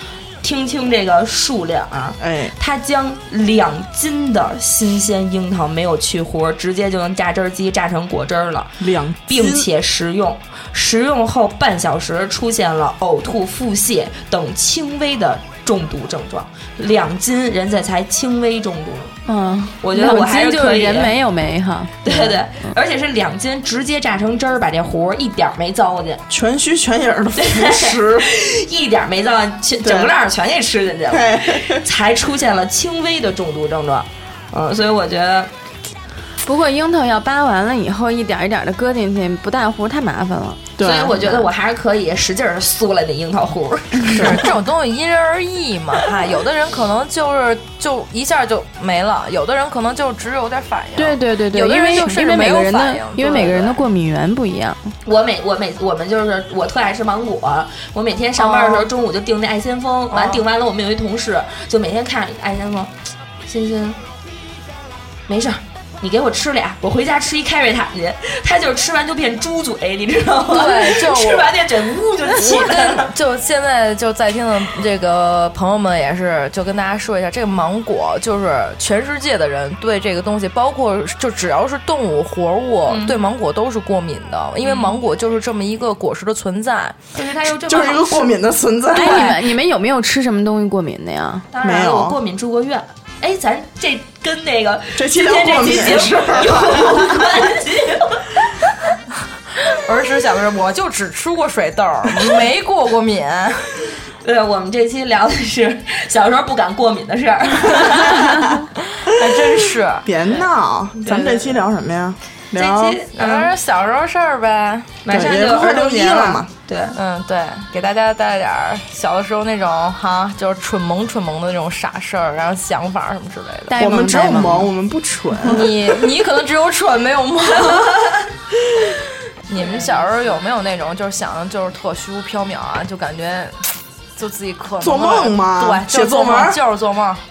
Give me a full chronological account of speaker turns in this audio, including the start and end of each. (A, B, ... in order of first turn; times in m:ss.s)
0:00.4-0:19.1 A
0:02.2-0:02.5 B
0:08.8-0:09.7 B
0:19.3-0:22.4 C
0:19.8-0:21.2 A
0:22.0-0:26.2 A
0:26.3-0:28.3 B
0:27.4-0:35.5 A
0:29.8-0:30.1 B
0:31.1-0:31.8 B
0:36.4-0:40.7 C
0:40.8-0:41.2 B
0:40.8-0:44.4 A
0:41.2-0:41.5 C
0:44.1-0:44.4 B
0:44.1-0:53.8 D
0:51.0-0:54.9 C
0:55.0-1:02.9 A
0:58.4-0:58.9 D
1:00.1-1:00.4 D
1:03.4-1:04.0 A
1:05.3-1:13.1 A
1:10.5-1:11.5 D
1:12.3-1:27.0 D
1:22.9-1:23.2 A
1:24.6-1:24.9 A
1:27.1-1:28.3 A
1:27.6-1:29.4 B
1:28.9-1:31.4 C
1:29.0-1:29.4 D
1:31.5-1:38.5 A
1:31.6-1:32.2 B
1:35.0-1:37.4 B
1:39.6-1:43.7 D
1:44.2-1:48.5 A
1:48.9-1:50.1 D
1:50.0-1:53.0 B
1:51.1-1:51.5 D
1:52.5-1:53.5 A
1:53.2-1:55.0 D
1:55.0-1:57.0 A
1:55.1-1:56.5 B
1:57.0-2:03.8 D
2:03.7-2:04.7 C
2:03.8-2:05.7 B
2:05.4-2:08.2 D
2:09.5-2:17.2 D
2:09.6-2:10.0 A
2:14.8-2:16.6 B